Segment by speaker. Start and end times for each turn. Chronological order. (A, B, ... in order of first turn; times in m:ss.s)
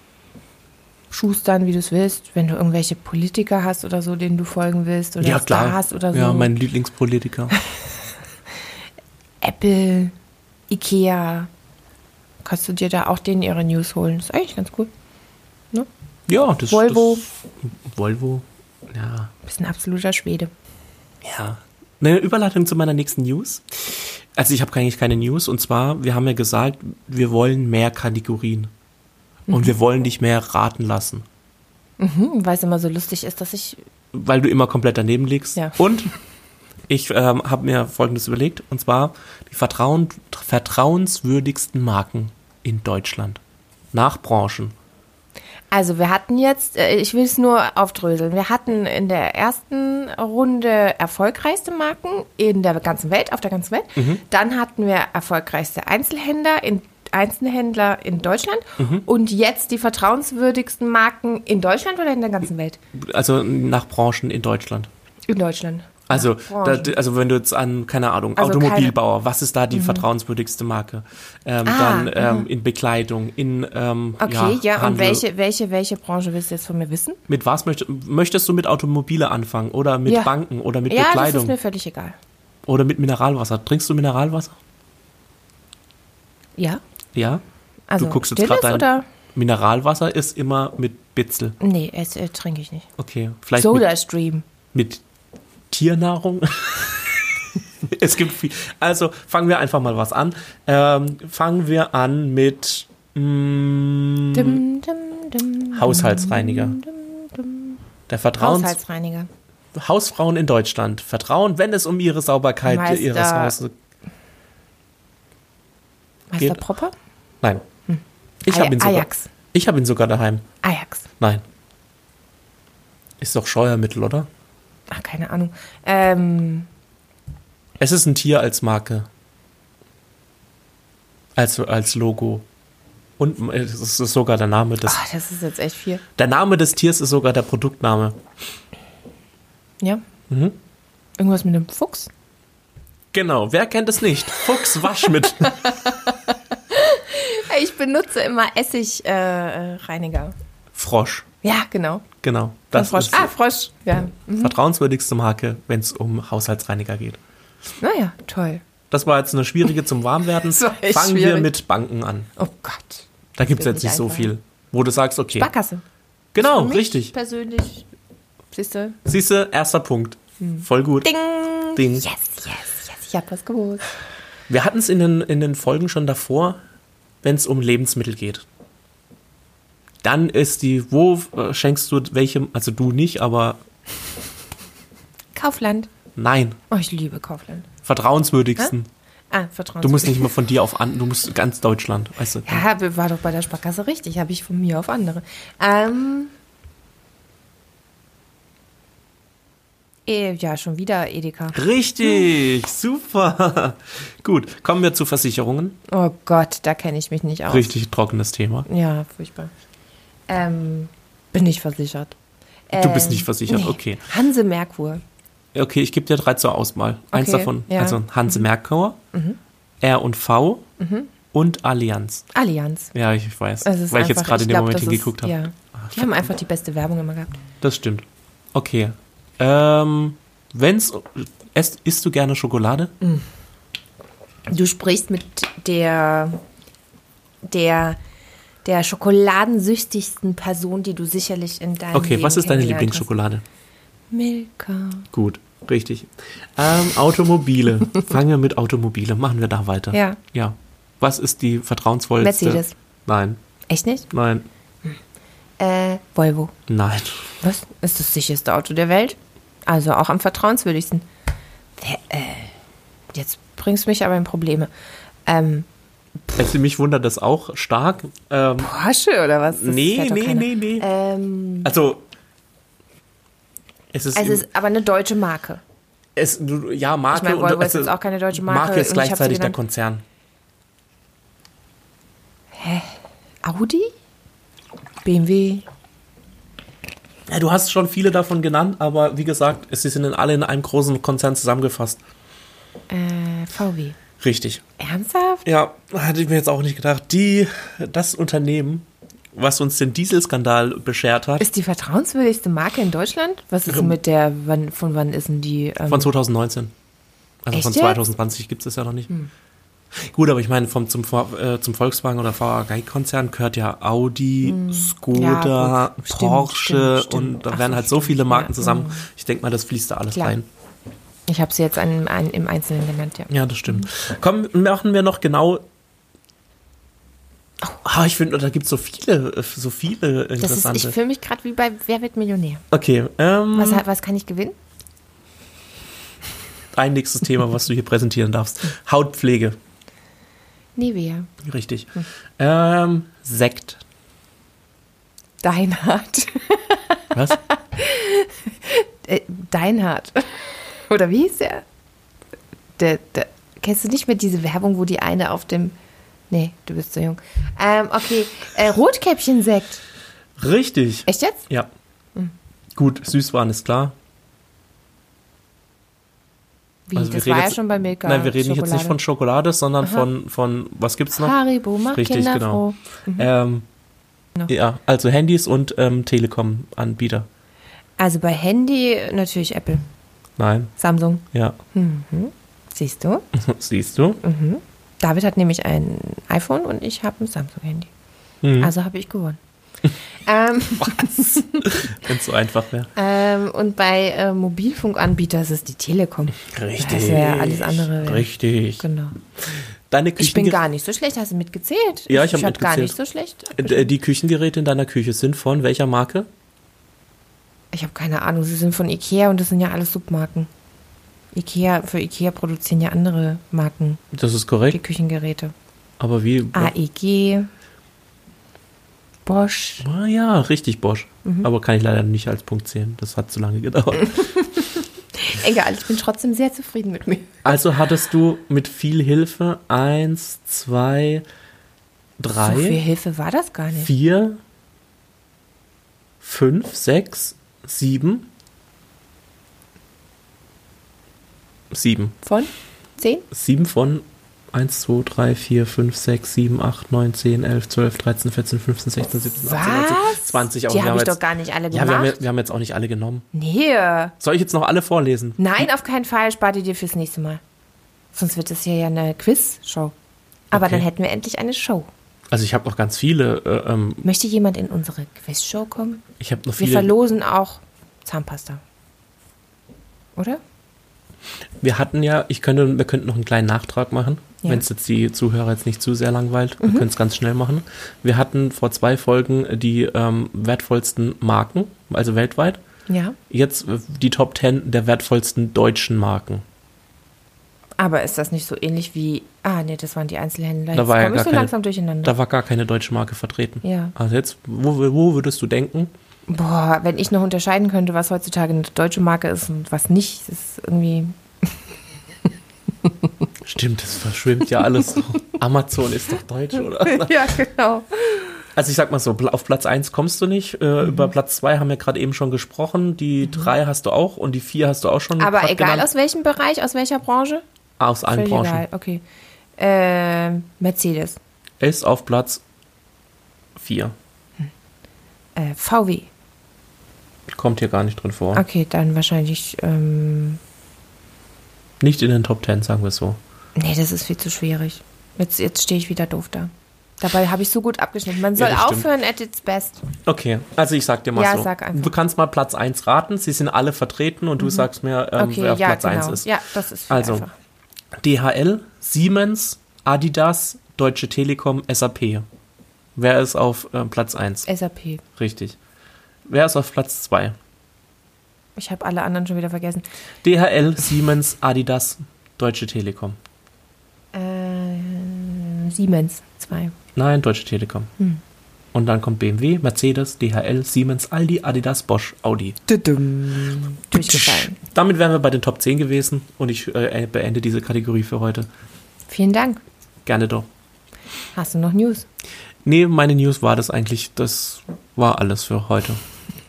0:01.1-0:06.5 A
0:05.2-0:07.6 B
0:09.4-0:10.1 A
0:10.7-0:11.5 A
0:12.4-0:14.9 A
0:16.3-0:19.3 B
0:16.7-0:17.2 A
0:19.4-0:20.5 A
0:21.2-0:28.7 B
0:29.5-0:29.7 A
0:29.5-0:31.2 B
0:32.0-0:33.8 A
0:34.1-0:36.1 B
0:36.9-0:43.4 B
0:43.9-0:44.7 B
0:45.7-1:02.8 A
0:54.0-0:54.2 B
0:58.8-0:59.0 B
1:02.9-1:04.9 B
1:05.3-1:06.9 A
1:06.1-1:15.2 B
1:08.4-1:08.9 A
1:09.7-1:10.0 A
1:11.6-1:12.5 A
1:14.2-1:17.2 A
1:17.3-1:21.5 B
1:20.0-1:20.3 A
1:20.9-1:22.2 A
1:22.7-1:24.6 B
1:27.1-1:27.4 B
1:27.9-1:29.0 A
1:28.0-1:31.6 B
1:31.6-1:32.9 A
1:33.0-1:33.9 B
1:33.5-1:34.4 A
1:34.7-1:35.0 B
1:35.7-1:44.6 B
1:44.3-1:47.8 A
1:45.7-1:46.8 B
1:48.1-1:48.8 B
1:48.4-1:49.3 A
1:49.7-1:53.7 B
1:52.6-1:53.6 A
1:56.3-1:56.9 A
1:57.9-1:59.3 A
1:58.4-2:00.4 B
2:00.6-2:01.0 A
2:03.2-2:04.3 B
2:04.9-2:06.7 A
2:07.8-2:09.1 B
2:11.4-2:12.4 B
2:13.2-2:15.0 B
2:14.8-2:16.0 A
2:16.2-2:18.2 B
2:20.3-2:20.6 B
2:21.2-2:22.1 A
2:23.1-2:25.7 B
2:25.4-2:30.3 A
2:30.7-2:31.2 B
2:31.4-2:32.0 A
2:32.2-2:33.3 B
2:32.7-2:34.5 A
2:34.4-2:37.2 B
2:37.8-2:38.6 A
2:38.9-2:42.3 B
2:40.4-2:41.5 A
2:42.4-2:44.3 A
2:43.4-2:45.5 B
2:45.3-2:45.8 A
2:46.3-2:47.1 B
2:46.4-2:47.8 A
2:48.5-2:49.0 A
2:49.0-2:51.1 B
2:50.4-2:53.9 A
2:51.7-2:52.1 B
2:54.5-2:56.6 B
2:57.2-2:58.4 B
3:00.0-3:03.6 B
3:05.3-3:05.9 A
3:06.2-3:06.6 B
3:06.7-3:07.7 A
3:07.8-3:08.9 B
3:09.3-3:10.3 A
3:09.8-3:12.6 B
3:12.4-3:16.3 A
3:20.0-3:22.3 A
3:21.5-3:25.8 B
3:25.9-3:27.7 A
3:27.5-3:28.7 B
3:28.7-3:29.5 A
3:30.3-3:32.1 A
3:32.7-3:35.0 A
3:32.7-3:34.0 B
3:35.5-3:39.0 B
3:37.1-3:38.5 A
3:39.1-3:39.4 A
3:39.8-3:40.6 B
3:40.8-3:41.1 A
3:41.3-3:42.2 B
3:42.3-3:42.9 A
3:42.9-3:46.0 B
3:43.6-3:47.4 A
3:47.6-3:52.9 B
3:54.5-3:56.4 A
3:57.4-3:58.0 A
3:58.6-4:03.1 A
4:01.9-4:03.4 B
4:04.1-4:05.1 A
4:05.1-4:13.4 B
4:09.9-4:10.2 A
4:12.2-4:12.7 A
4:13.7-4:14.1 A
4:14.1-4:14.4 B
4:15.6-4:16.5 A
4:16.7-4:17.4 B
4:17.4-4:21.0 A
4:21.8-4:22.6 A
4:23.1-4:24.7 A
4:25.2-4:25.6 A
4:26.4-4:28.7 B
4:28.6-4:31.7 A
4:29.5-4:30.9 B
4:31.6-4:32.0 B
4:33.9-4:34.4 B
4:34.1-4:35.6 A
4:36.2-4:40.0 B
4:37.1-4:39.6 A
4:42.5-4:43.9 A
4:45.0-4:45.6 A
4:47.3-4:52.0 B
4:52.9-4:54.0 A
4:54.2-4:54.6 B
4:54.8-4:55.4 A
4:55.4-5:01.4 B
5:01.4-5:06.1 A
5:03.7-5:03.9 B
5:05.9-5:06.7 B
5:07.4-5:09.1 B
5:07.5-5:08.0 A
5:10.0-5:20.5 B
5:14.4-5:19.1 A
5:20.1-5:20.4 A
5:21.3-5:23.9 A
5:23.3-5:25.6 B
5:27.8-5:31.0 B
5:30.4-5:32.6 A
5:32.7-5:33.8 B
5:33.5-5:34.6 A
5:36.7-5:39.6 B
5:40.8-5:41.3 A
5:41.4-5:43.8 B
5:45.4-5:51.6 A
5:47.1-5:47.4 B
5:52.8-5:55.7 A
5:56.3-5:59.8 A
6:00.4-6:01.7 B
6:01.1-6:01.4 A
6:02.8-6:03.9 B
6:06.9-6:09.0 A
6:06.9-6:11.3 B
6:09.8-6:10.1 A
6:11.1-6:13.3 A
6:11.9-6:13.6 B
6:14.5-6:17.3 B
6:18.0-6:19.8 A
6:20.4-6:20.7 B
6:20.8-6:23.2 A
6:21.3-6:21.6 B
6:23.3-6:24.2 B
6:24.2-6:27.9 A
6:28.4-6:28.7 B
6:28.6-6:29.4 A
6:30.2-6:31.9 A
6:30.8-6:32.9 B
6:33.0-6:39.2 A
6:36.4-6:38.8 B
6:39.9-6:40.6 B
6:40.2-6:43.9 A
6:42.1-6:43.0 B
6:43.5-6:46.3 B
6:47.7-6:50.5 A
6:51.3-6:54.0 A
6:54.1-6:54.8 B
6:54.7-6:55.5 A
6:56.0-6:56.7 B
6:56.5-6:57.5 A
6:59.2-6:59.8 A
6:59.8-7:04.3 B
7:04.0-7:04.7 A
7:05.2-7:07.4 A
7:07.4-7:11.2 B
7:12.2-7:12.8 B
7:12.4-7:13.9 A
7:13.8-7:14.4 B
7:16.2-7:18.3 B
7:21.7-7:22.2 B
7:22.2-7:23.2 A
7:23.3-7:33.2 B
7:29.4-7:32.2 A
7:33.3-7:34.1 A
7:34.2-7:35.7 B
7:35.4-7:37.4 A
7:38.1-7:39.9 A
7:40.5-7:41.9 A
7:40.5-7:40.8 B
7:42.3-7:44.0 B
7:44.0-7:46.0 A
7:46.2-7:46.9 B
7:46.6-7:48.6 A
7:51.6-8:02.6 B
7:56.6-7:56.9 A
8:02.9-8:03.2 A
8:03.3-8:06.4 B
8:07.8-8:12.1 A
8:10.7-8:15.9 B
8:13.6-8:13.9 A
8:16.3-8:21.5 A
8:23.4-8:27.3 B
8:26.5-8:28.4 A
8:28.6-8:35.9 B
8:30.8-8:31.1 A
8:33.2-8:33.5 A
8:35.2-8:37.4 A
8:37.8-8:38.6 B
8:38.1-8:39.0 A
8:39.6-8:41.2 A
8:41.6-8:42.4 B
8:43.6-8:43.9 B
8:45.4-8:46.1 A
8:47.3-8:48.4 B
8:48.3-8:50.4 A
8:51.8-8:53.2 B
8:53.6-8:59.8 A
8:58.3-8:58.9 B
9:00.0-9:06.3 B
9:01.1-9:01.9 A
9:04.4-9:07.3 A
9:06.9-9:07.2 B
9:08.0-9:12.2 B
9:13.0-9:14.5 B
9:14.4-9:15.0 A
9:15.2-9:15.6 B
9:16.3-9:17.4 B
9:18.6-9:19.8 A
9:20.2-9:23.2 B
9:24.1-9:26.7 A
9:26.9-9:27.9 B
9:28.7-9:32.6 B
9:32.7-9:34.6 A
9:34.0-9:38.5 B
9:39.1-9:39.6 A
9:40.0-9:40.5 B
9:41.3-9:42.0 A
9:42.6-9:46.0 B